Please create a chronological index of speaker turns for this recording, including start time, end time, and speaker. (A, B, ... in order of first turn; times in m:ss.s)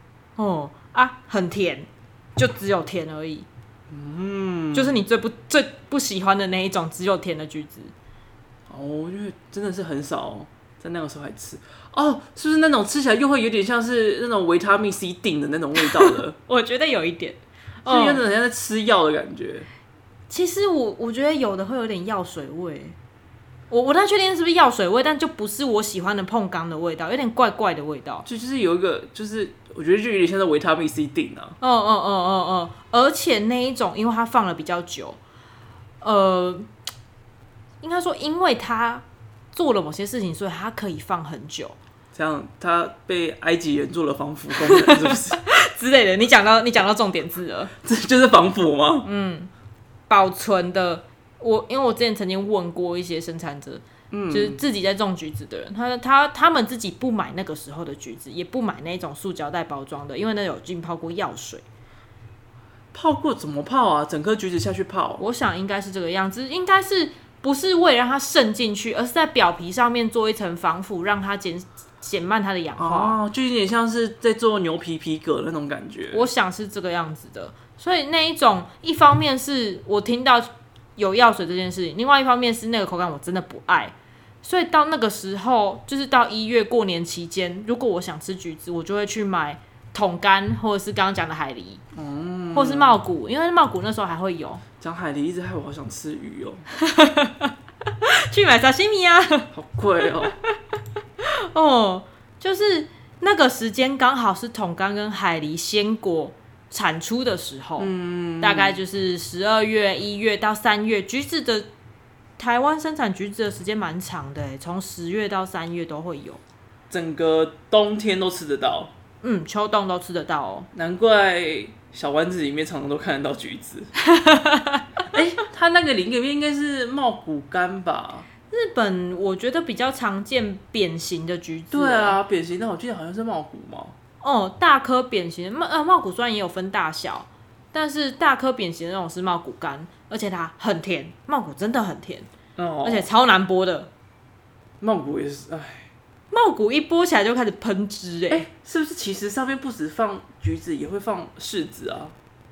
0:00.4-0:03.4 A
0:03.9-0:05.0 B
0:04.7-0:07.9 A
0:08.7-0:16.3 B
0:15.8-0:18.2 A
0:17.8-0:19.7 B
0:20.3-0:23.0 A
0:23.7-0:28.2 A
0:28.2-0:31.6 B
0:31.6-0:35.2 A
0:36.0-0:36.7 A
0:37.8-0:41.8 A
0:42.1-0:45.4 B
0:44.6-0:47.7 A
0:47.8-0:49.1 B
0:49.0-0:49.5 A
0:50.1-1:01.6 A
0:54.1-0:54.6 B
1:02.9-1:05.2 B
1:05.2-1:13.2 A
1:12.8-1:16.3 B
1:16.1-1:31.8 A
1:31.9-1:33.0 B
1:32.5-1:34.6 A
1:34.8-1:36.6 B
1:36.8-1:37.5 A
1:38.0-1:39.5 A
1:39.5-1:40.3 B
1:41.2-1:51.7 A
1:47.8-1:48.8 B
1:52.4-1:56.4 A
1:56.9-1:58.9 B
1:59.2-2:00.7 A
2:00.7-2:03.9 B
2:04.0-2:04.8 A
2:05.1-2:08.3 B
2:08.5-2:12.2 A
2:11.7-2:14.0 B
2:14.2-2:22.3 A
2:22.6-2:23.1 B
2:22.8-2:23.9 A
2:24.8-2:25.9 B
2:26.3-2:28.4 A
2:28.3-2:32.1 B